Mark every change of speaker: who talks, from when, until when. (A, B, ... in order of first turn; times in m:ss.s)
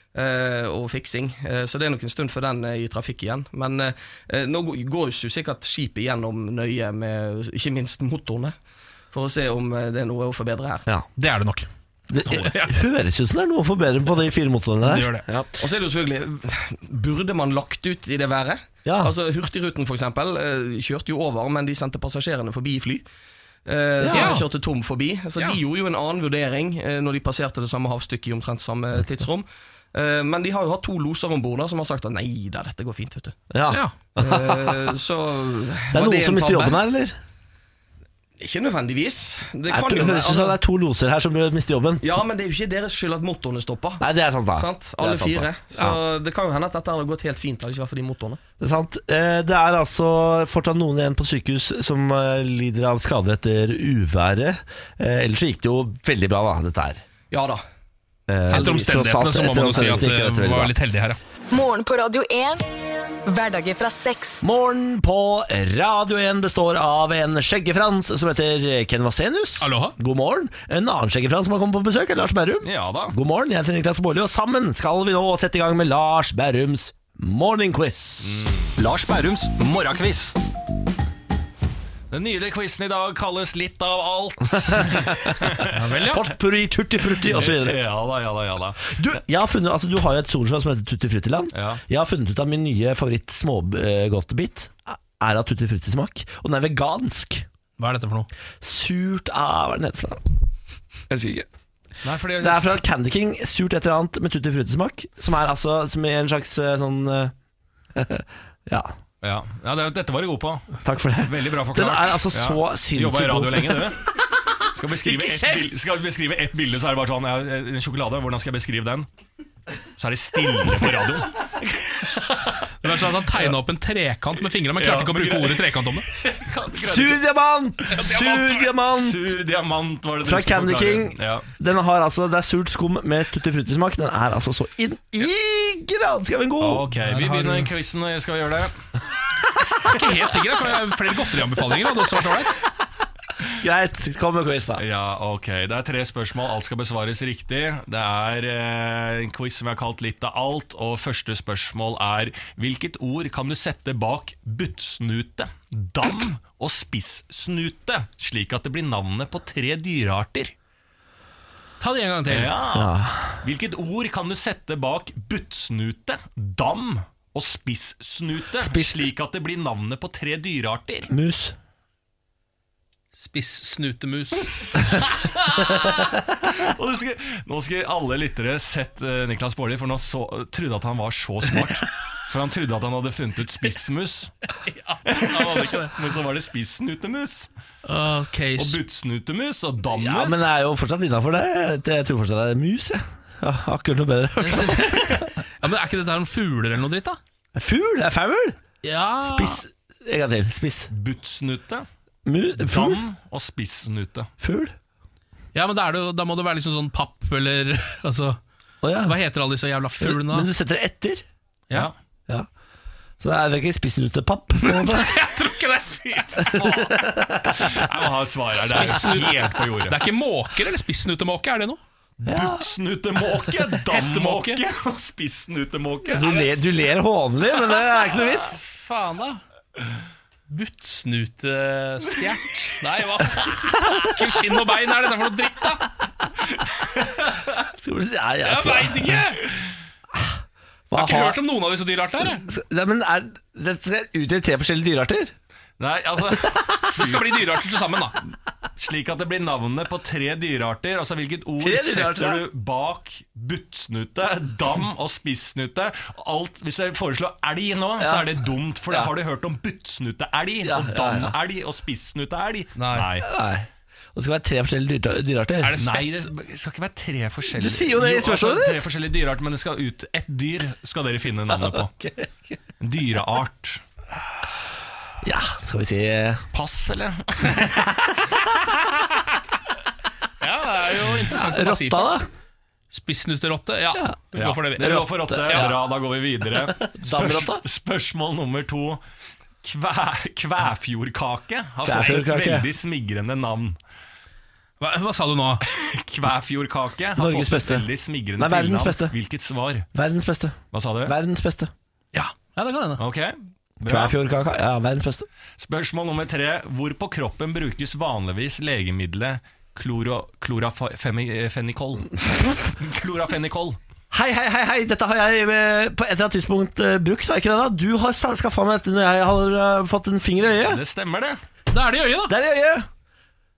0:00.1-0:08.5 A
0:09.1-0:10.8 A
0:11.2-0:12.7 B
0:12.1-0:15.5 C
0:14.8-0:15.2 B
0:15.6-0:23.0 A
0:18.8-0:19.1 C
0:23.6-0:33.4 A
0:24.0-0:24.4 C
0:24.1-0:24.4 B
0:33.5-0:34.8 C
0:34.2-0:36.8 A
0:35.9-0:37.1 C
0:38.4-0:40.6 A
0:39.7-0:42.0 C
0:42.0-0:44.0 A
0:44.0-0:46.0 C
0:44.5-0:48.4 A
0:48.6-0:57.0 C
0:57.3-0:57.6 A
0:58.3-1:00.7 C
0:58.5-0:59.0 A
0:58.5-1:01.2 B
1:01.5-1:02.7 D
1:03.2-1:04.4 D
1:04.4-1:18.4 C
1:09.6-1:10.0 B
1:12.6-1:13.2 E
1:18.2-1:20.4 E
1:22.1-1:25.8 E
1:24.7-1:25.4 C
1:25.7-1:26.3 B
1:26.0-1:27.8 C
1:27.2-1:29.0 E
1:28.9-1:37.4 C
1:31.5-1:31.8 E
1:37.8-1:38.3 B
1:38.6-1:40.3 C
1:41.1-1:41.4 C
1:42.0-1:42.8 E
1:42.4-1:47.3 C
1:47.9-1:48.9 C
1:49.2-1:54.0 E
1:50.8-1:53.9 C
1:54.7-1:59.1 E
1:55.0-1:55.5 C
2:00.0-2:01.4 E
2:02.8-2:06.1 B
2:04.6-2:07.2 E
2:06.8-2:09.2 C
2:07.9-2:08.7 B
2:08.9-2:11.5 E
2:10.2-2:16.9 C
2:16.6-2:18.7 E
2:17.0-2:17.7 B
2:19.8-2:22.6 B
2:23.6-2:24.8 C
2:24.8-2:40.5 E
2:41.8-2:42.5 B
2:42.3-2:51.1 E
2:42.7-2:43.4 C
2:48.6-2:49.1 C
2:51.1-2:51.5 C
2:53.2-2:55.8 B
2:55.5-2:55.9 E
2:55.7-2:56.2 C
2:56.4-3:04.3 E
3:04.6-3:06.0 B
3:05.0-3:07.5 E
3:07.8-3:08.8 B
3:08.6-3:10.5 E
3:09.9-3:15.3 C
3:14.4-3:17.2 B
3:17.6-3:18.6 C
3:18.8-3:19.6 B
3:19.2-3:20.9 C
3:20.9-3:21.8 E
3:22.2-3:23.0 C
3:22.6-3:24.3 E
3:24.4-3:24.7 C
3:25.5-3:28.4 B
3:28.8-3:29.2 C
3:29.0-3:30.5 B
3:30.0-3:31.2 C
3:33.2-3:35.2 C
3:34.6-3:37.0 B
3:36.4-3:36.8 E
3:36.6-3:37.8 C
3:37.5-3:40.0 E
3:38.6-3:41.8 B
3:38.8-3:39.2 C
3:42.2-3:46.5 E
3:42.2-3:42.6 C
3:43.9-3:44.6 B
3:46.1-3:48.6 C
3:47.7-3:49.4 B
3:50.5-3:55.9 B
3:57.0-3:57.4 E
3:57.8-3:59.2 C
3:58.4-3:59.4 B
4:00.9-4:01.4 C
4:00.9-4:02.5 B
4:02.2-4:05.3 C
4:05.8-4:07.3 E
4:06.9-4:08.2 B
4:08.8-4:23.3 E
4:11.6-4:12.4 C
4:18.0-4:18.3 C
4:20.6-4:21.3 C
4:22.7-4:23.1 B
4:23.2-4:25.8 C
4:25.6-4:26.1 B
4:25.8-4:31.9 E
4:27.5-4:28.8 C
4:31.6-4:32.6 C
4:32.8-4:33.8 E
4:35.2-4:36.4 C
4:36.5-4:37.9 E
4:40.4-4:42.2 B
4:41.3-4:42.3 C
4:42.9-4:45.7 B
4:44.3-4:49.0 E
4:44.8-4:45.8 C
4:46.8-4:47.6 C
4:49.6-4:53.8 E
4:51.8-4:52.7 C
4:54.8-4:55.6 B
4:55.6-4:59.8 E
4:57.2-4:57.8 C
4:58.4-4:59.1 C
4:59.9-5:01.7 C
5:00.7-5:01.1 E
5:02.1-5:03.0 B
5:03.0-5:04.2 E
5:03.9-5:05.3 C
5:05.6-5:13.8 E
5:14.1-5:20.8 C
5:20.6-5:21.4 E
5:21.7-5:22.3 B
5:22.3-5:22.9 C